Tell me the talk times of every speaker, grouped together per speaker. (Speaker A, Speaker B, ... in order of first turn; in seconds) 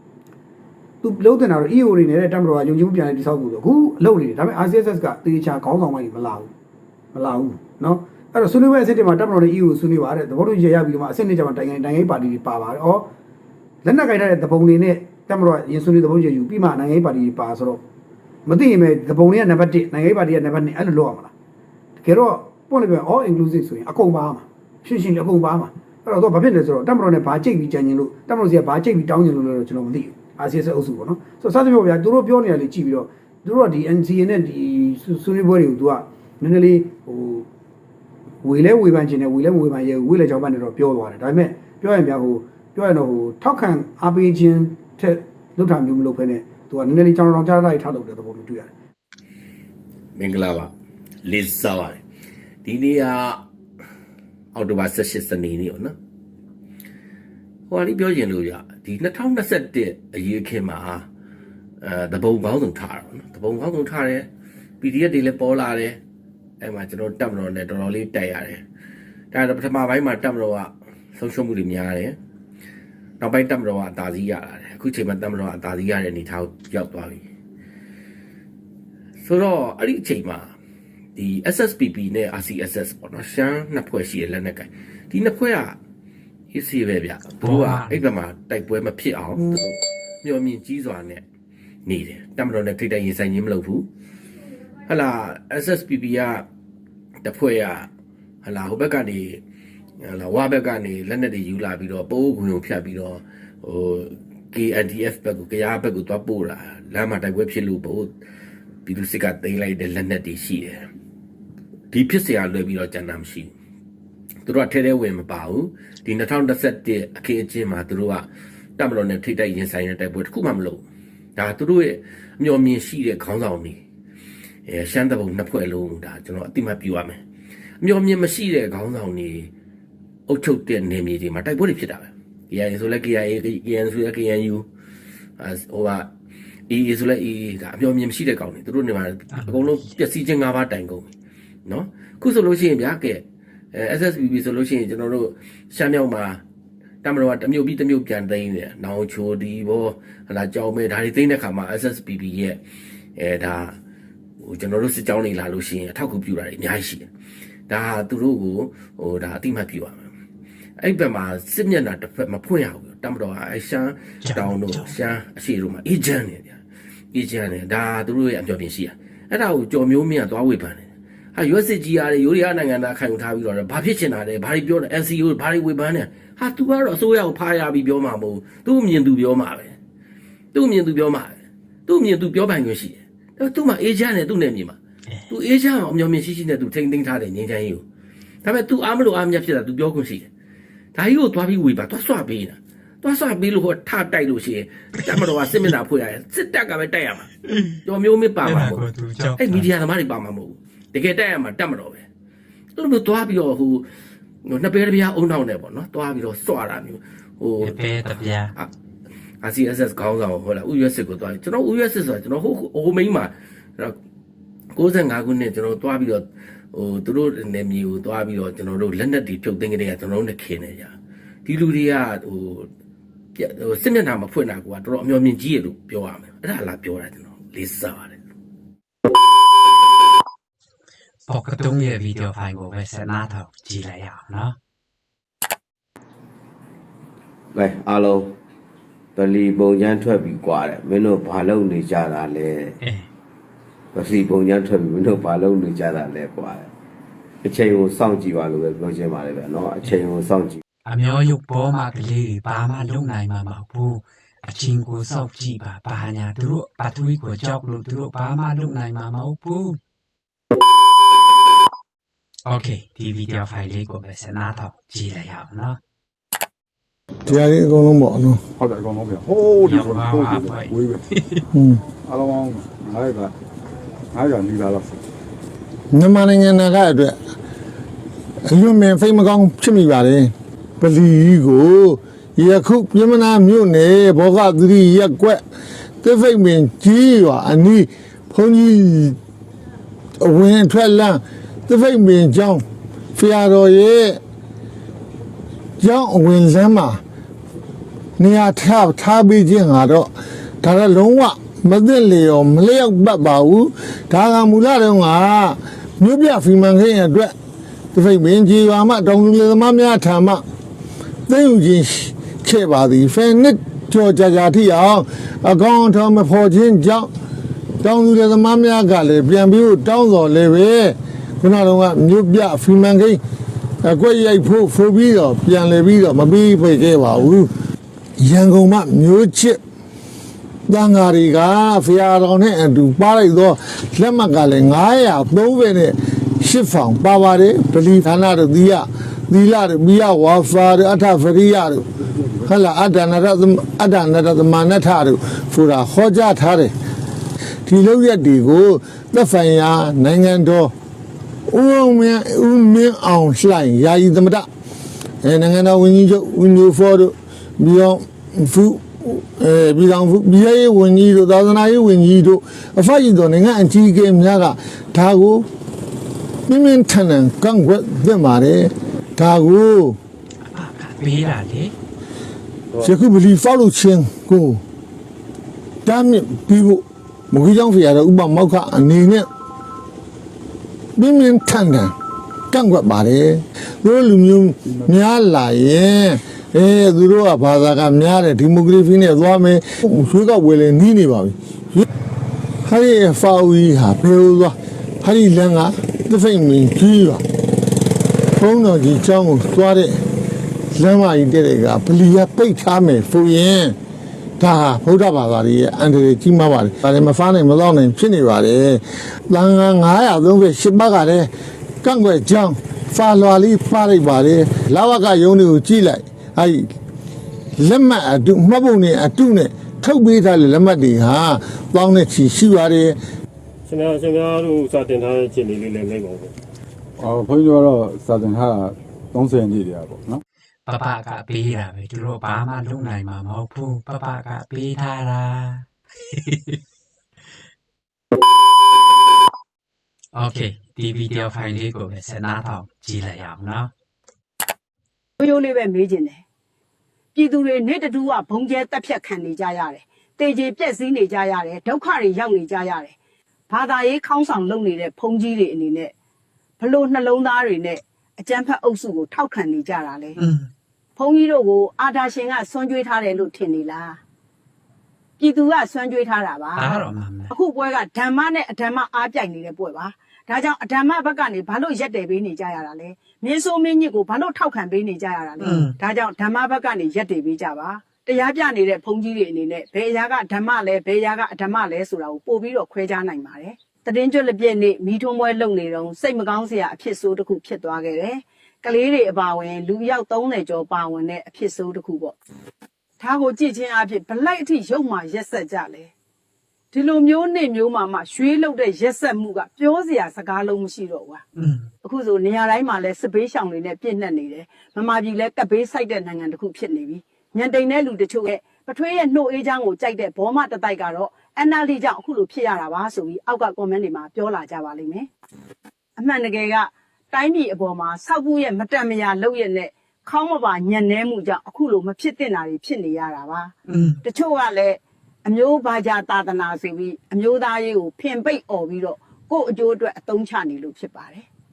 Speaker A: 1.0-6.5, 7.1-13.1, 13.8-17.8, 18.5-21.3, 22.0-37.5, 38.4-48.7
Speaker B: 50.2-50.7, 51.2-52.0, 52.6-53.4, 54.5-56.0, 57.7-61.0, 61.8-64.3, 64.8-66.0, 66.6-68.6, 69.3-72.2, 73.2-77.2, 79.2-80.5, 81.2-85.8, 86.5-91.2, 91.9-93.9, 94.9-96.5, 97.2-97.9, 98.4-99.4, 100.0-108.1, 108.9-110.9, 111.9-113.5, 114.5-118.3, 118.8-120.8, 121.4-123.8, 124.7-127.2, 127.8-129.5, 130.3-134.7, 135.4-136.1, 136.7-141.1, 141.7-146.4, 147.0-152.6, 153.2-153.8, 154.4-157.1, 157.7-160.1, 160.8-166.6, 167.1-179.8, 180.5-184.8, 185.3-187.8, 188.4-190.3, 190.9-197.3, 197.8-202.1, 202.8-203.8, 204.4-207.8, 209.4-214.0, 214.7-220.9, 221.4-222.7, 223.4-228.2
Speaker C: 87.4-88.0, 139.3-139.6, 164.2-164.9, 197.4-197.8, 198.4-199.7, 207.6-208.5, 231.3-234.6, 242.8-243.1, 250.9-259.8, 262.5-265.8, 269.6-271.4, 370.5-371.7, 430.7-436.6, 440.1-443.7, 460.2-460.5, 466.6-467.3, 475.4-475.8, 501.4-501.7, 523.7-524.0
Speaker D: 237.5-238.3, 239.2-242.7, 243.9-246.7, 247.4-250.6
Speaker E: 267.3-268.4, 271.5-271.8, 275.9-277.2, 278.5-285.4, 286.0-289.2, 290.2-292.6, 293.2-294.2, 295.8-297.0, 298.2-300.1, 300.6-307.4, 307.9-310.4, 311.3-317.1, 317.8-323.2, 323.8-327.5, 328.2-329.6, 330.7-341.9, 342.4-346.7, 347.7-350.7, 351.5-354.5, 355.2-365.5, 366.5-370.0, 372.8-374.6, 375.9-379.3, 381.0-381.9, 382.5-391.9, 392.6-397.2, 398.4-400.0, 400.7-403.8, 404.4-411.3, 411.8-416.7, 417.6-423.0
Speaker F: 268.6-271.1, 272.1-273.3, 274.1-275.0, 427.0-430.2
Speaker G: 423.7-426.3
Speaker H: 445.2-446.2, 447.1-452.9, 453.5-455.9, 456.6-460.2, 461.0-464.0, 465.2-492.1, 493.0-495.9, 496.7-501.2, 501.8-515.1, 516.0-531.3